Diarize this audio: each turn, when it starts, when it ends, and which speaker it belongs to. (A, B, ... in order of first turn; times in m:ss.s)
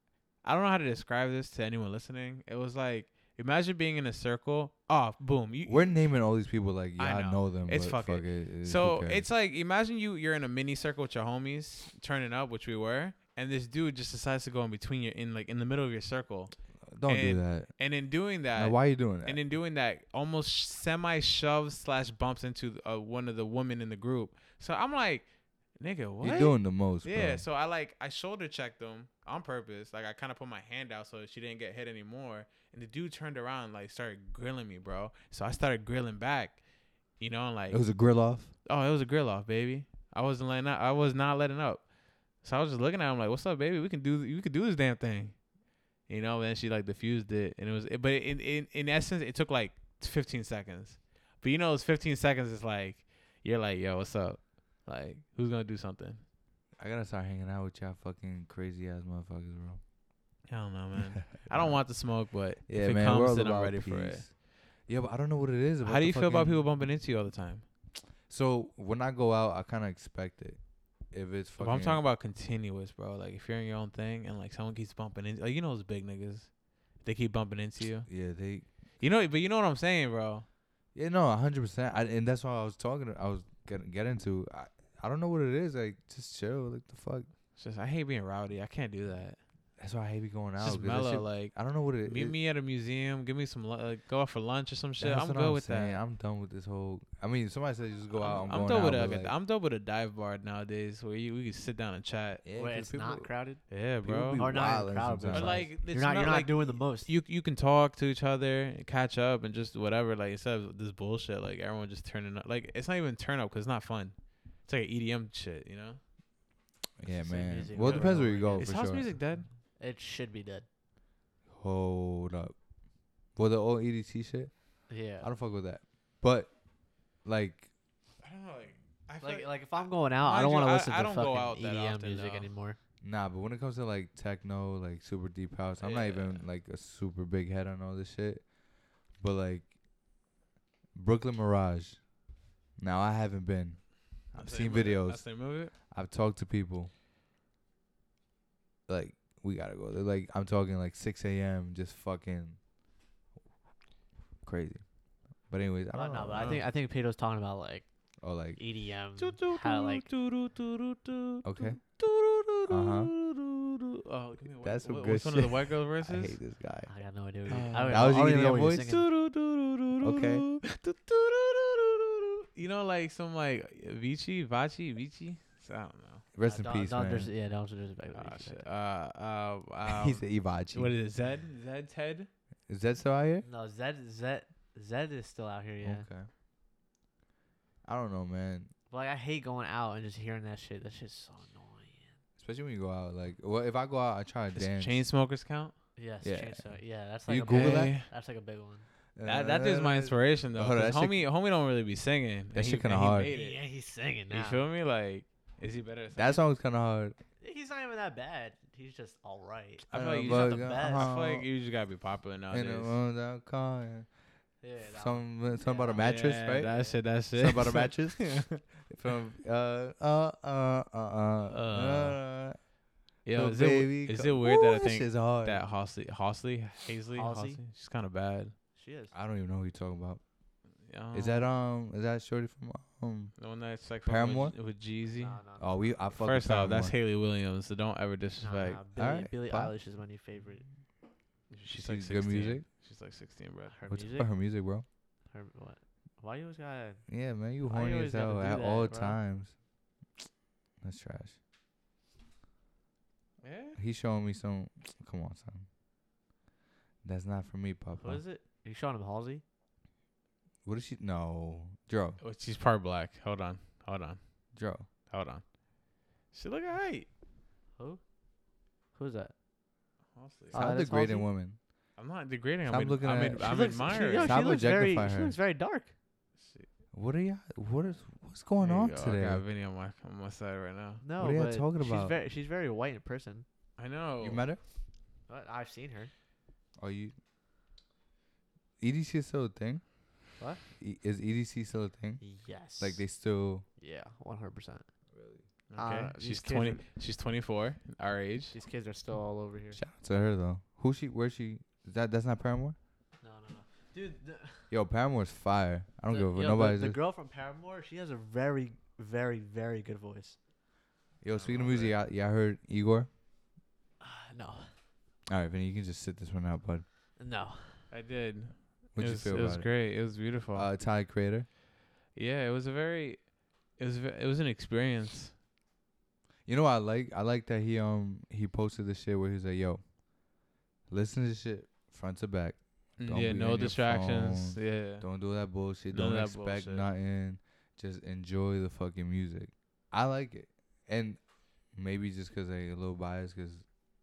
0:00.4-0:06.0 A
0:05.6-0:09.3 B
0:07.0-0:16.6 A
0:16.9-0:17.7 B
0:17.1-0:25.3 A
0:18.5-0:19.4 B
0:25.8-0:36.6 A
0:26.2-0:27.4 B
0:37.2-0:37.8 A
0:37.7-0:38.5 B
0:38.6-0:41.9 A
0:42.4-0:45.4 A
0:46.1-0:56.2 A
0:56.8-0:59.8 B
1:00.5-1:04.3 A
1:01.0-1:01.8 B
1:02.7-1:06.6 B
1:05.8-1:07.6 A
1:08.3-1:10.6 B
1:11.1-1:12.0 B
1:11.6-1:16.5 A
1:17.0-1:18.1 A
1:18.1-1:18.7 B
1:19.0-1:20.5 A
1:20.9-1:27.3 B
1:27.6-1:29.4 A
1:29.8-1:32.4 B
1:30.6-1:36.0 A
1:35.0-1:39.3 B
1:38.2-1:42.4 A
1:42.4-1:43.3 B
1:42.6-1:43.6 C
1:43.7-1:44.5 A
1:44.0-1:45.7 B
1:44.4-1:47.1 C
1:45.3-1:56.0 A
1:57.0-1:59.1 B
1:57.1-1:58.7 C
1:57.8-1:59.5 A
1:59.8-2:00.7 C
2:01.5-2:02.6 B
2:03.4-2:04.5 B
2:04.9-2:05.3 C
2:05.2-2:06.5 B
2:07.2-2:07.7 B
2:08.2-2:12.5 A
2:09.2-2:12.8 C
2:13.0-2:18.5 B
2:15.8-2:16.4 A
2:19.2-2:19.7 B
2:21.0-2:22.0 B
2:22.8-2:26.9 B
2:24.4-2:25.7 A
2:28.9-2:32.6 B
2:34.4-2:34.8 B
2:35.5-2:36.5 B
2:35.9-2:37.9 C
2:36.3-2:36.7 A
2:38.2-2:38.6 B
2:38.6-2:40.1 C
2:39.2-2:46.4 A
2:41.4-2:41.8 B
2:42.7-2:43.1 B
2:44.6-2:46.9 B
2:46.9-2:49.1 C
2:47.5-2:48.2 A
2:47.9-2:49.0 B
2:48.9-2:56.3 A
2:50.0-2:50.4 B
2:56.3-2:57.3 B
2:56.4-2:58.7 C
2:58.1-3:02.3 A
2:59.9-3:01.0 B
3:02.7-3:03.5 B
3:03.4-3:06.1 C
3:05.8-3:06.3 B
3:07.8-3:08.7 B
3:08.9-3:12.2 C
3:12.4-3:15.0 B
3:14.6-3:15.7 A
3:16.0-3:18.8 C
3:16.2-3:16.7 B
3:17.3-3:18.0 B
3:17.5-3:18.1 A
3:19.2-3:21.2 B
3:19.2-3:23.6 A
3:22.5-3:23.3 B
3:23.2-3:24.6 C
3:24.3-3:26.4 A
3:26.2-3:27.2 B
3:27.4-3:31.1 C
3:29.9-3:31.5 B
3:29.9-3:33.0 A
3:32.5-3:34.1 B
3:34.6-3:37.0 C
3:34.8-3:36.7 B
3:36.0-3:38.6 A
3:37.3-3:38.3 B
3:38.9-3:42.6 B
3:41.5-3:42.2 A
3:43.2-3:48.5 A
3:43.3-3:45.7 B
3:47.2-3:47.6 C
3:48.8-3:49.1 C
3:49.1-3:50.2 B
3:50.9-3:51.5 A
3:51.1-3:53.3 B
3:53.4-3:55.4 A
3:54.0-3:54.6 B
3:55.1-3:56.1 C
3:55.6-3:56.9 B
3:56.2-3:58.8 A
3:58.4-4:00.6 C
3:59.0-3:59.7 B
4:01.5-4:03.8 A
4:01.7-4:02.7 B
4:03.7-4:04.3 C
4:03.9-4:04.8 B
4:05.3-4:07.0 C
4:07.1-4:09.5 B
4:07.6-4:09.2 C
4:10.8-4:11.4 B
4:13.4-4:13.8 A
4:13.8-4:15.7 B
4:17.0-4:18.2 B
4:18.0-4:19.4 C
4:20.6-4:22.2 B
4:22.2-4:24.2 A
4:24.5-4:24.9 B
4:25.1-4:25.6 A
4:26.3-4:27.1 A
4:29.0-4:29.3 C
4:30.2-4:30.6 A
4:30.5-4:31.3 C
4:30.5-4:31.6 B
4:32.0-4:34.4 A
4:32.7-4:35.4 B
4:33.4-4:35.9 C
4:36.4-4:36.7 A
4:36.9-4:39.4 B
4:38.6-4:41.0 A
4:41.0-4:43.4 C
4:41.2-4:42.1 B
4:43.8-4:44.4 A
4:44.2-4:44.6 B
4:45.3-4:46.1 C
4:46.8-4:47.1 B
4:48.8-4:49.9 B
4:50.8-4:52.2 B
4:52.2-4:53.0 C
4:52.8-4:53.6 B
4:53.8-4:54.8 C
4:55.1-4:55.5 B
4:55.7-4:58.6 A
4:55.8-4:56.8 C
4:58.5-4:59.8 C
4:59.7-5:02.8 B
5:03.2-5:04.7 C
5:04.7-5:07.0 B
5:06.1-5:10.4 C
5:11.2-5:13.1 B
5:11.3-5:11.9 C
5:14.0-5:14.7 C
5:15.3-5:16.8 B
5:17.2-5:17.9 C
5:17.9-5:20.7 A
5:18.9-5:19.7 B
5:20.5-5:21.5 B
5:22.2-5:25.3 A
5:26.5-5:29.8 B
5:30.9-5:41.2 B
5:33.0-5:35.1 A
5:35.9-5:36.9 A
5:41.8-5:43.7 B